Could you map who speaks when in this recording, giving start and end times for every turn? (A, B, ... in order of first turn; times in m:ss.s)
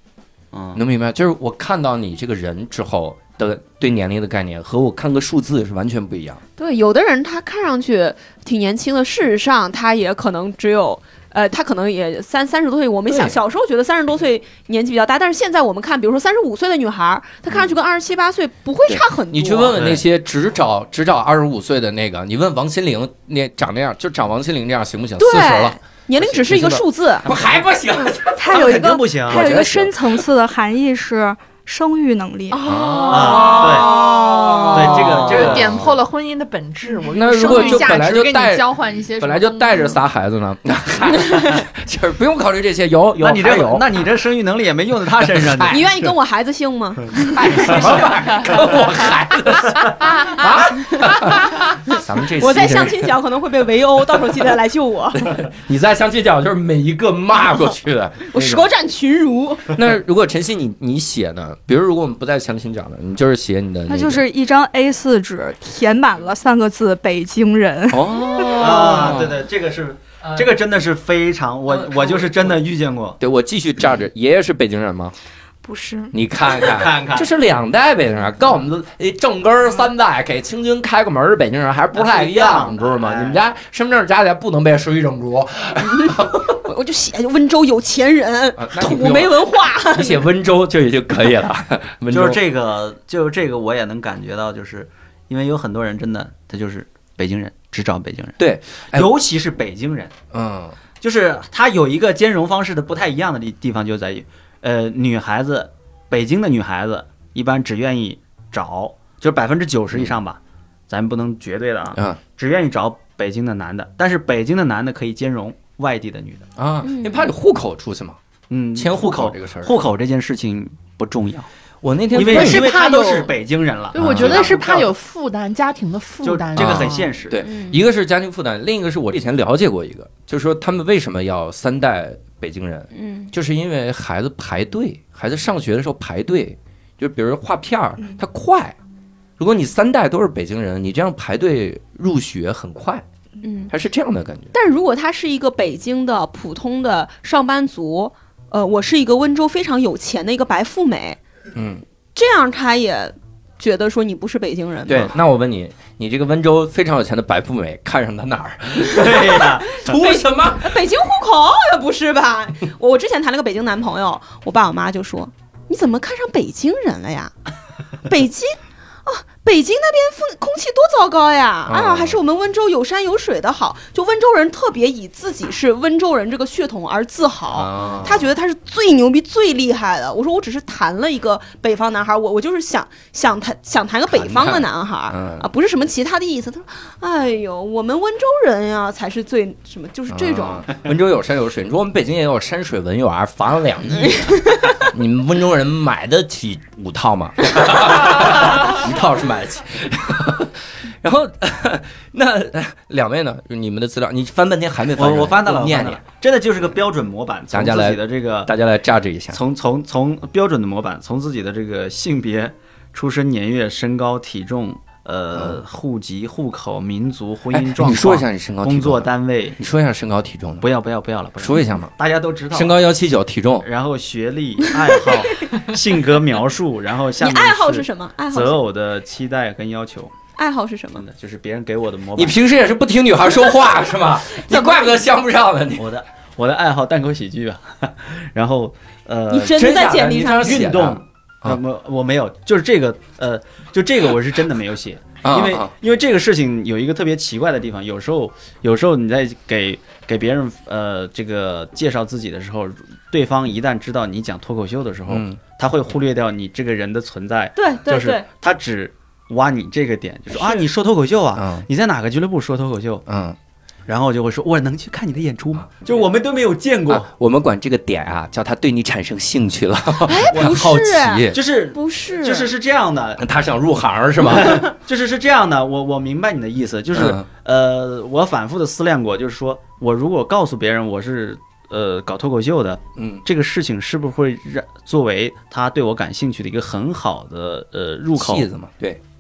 0:00.5-0:00.8 A
0:00.8-0:06.4 B
0:06.6-0:19.8 C
0:13.1-0:13.4 B
0:18.9-0:30.2 B
0:19.7-0:20.0 A
0:25.2-0:27.3 C
0:28.4-0:32.6 D
0:28.5-0:29.7 A
0:32.5-0:35.0 C
0:32.6-0:35.9 B
0:33.1-0:34.1 A
0:34.7-0:35.8 A
0:35.1-0:40.0 E
0:37.1-0:43.9 B
0:43.2-0:45.8 A
0:45.2-0:46.1 B
0:45.7-0:48.0 C
0:47.2-0:53.2 B
0:51.3-0:55.4 C
0:55.2-0:58.7 B
0:58.3-0:59.8 C
0:59.7-1:04.2 B
1:03.9-1:08.8 D
1:07.9-1:09.4 B
1:08.5-1:08.9 C
1:08.6-1:13.2 A
1:12.0-1:12.5 B
1:13.2-1:15.1 B
1:15.6-1:16.1 D
1:16.1-1:26.6 B
1:16.5-1:17.3 A
1:21.9-1:23.4 A
1:26.0-1:30.2 C
1:28.6-1:32.4 B
1:32.1-1:38.4 A
1:38.4-1:39.1 B
1:38.9-1:40.1 A
1:40.3-1:40.8 B
1:41.0-1:56.4 A
1:51.9-1:52.2 B
1:56.6-1:58.2 B
1:56.8-1:57.3 C
1:58.5-2:01.5 A
1:58.8-1:59.8 B
2:01.8-2:02.8 B
2:02.1-2:04.9 A
2:02.2-2:03.4 E
2:03.9-2:07.1 E
2:04.0-2:04.6 B
2:06.2-2:07.4 A
2:06.6-2:18.8 B
2:07.4-2:07.8 C
2:12.9-2:13.3 C
2:19.4-2:23.0 B
2:23.4-2:23.7 C
2:23.7-2:24.5 B
2:24.5-2:31.2 C
2:31.5-2:31.8 B
2:32.2-2:35.1 C
2:34.9-2:40.7 B
2:38.9-2:39.9 A
2:40.0-2:47.3 C
2:48.0-3:10.7 C
2:51.7-2:52.2 B
2:57.5-2:58.3 B
3:04.1-3:05.5 B
3:10.1-3:26.0 B
3:14.0-3:14.9 C
3:25.0-3:28.5 A
3:27.5-3:29.4 B
3:29.3-3:39.6 A
3:35.3-3:35.6 B
3:37.5-3:40.7 B
3:40.6-3:42.8 A
3:41.4-3:41.9 B
3:42.5-3:43.7 B
3:43.6-3:50.1 A
3:47.2-3:48.6 C
3:50.4-3:51.0 C
3:51.0-3:52.4 A
3:52.2-3:55.9 B
3:54.3-3:55.0 C
3:55.8-4:23.0 A
3:59.3-4:00.8 C
3:59.5-4:01.6 B
4:05.2-4:05.7 B
4:15.1-4:15.4 B
4:17.6-4:18.2 C
4:20.3-4:20.7 C
4:21.4-4:21.7 B
4:23.1-4:23.4 B
4:23.9-4:27.1 A
4:26.9-4:31.4 B
4:30.0-4:32.6 C
4:30.3-4:30.7 A
4:31.3-4:33.2 A
4:33.2-4:34.7 B
4:34.2-4:48.5 A
4:36.9-4:37.3 B
4:43.0-4:43.2 B
4:48.1-4:49.0 B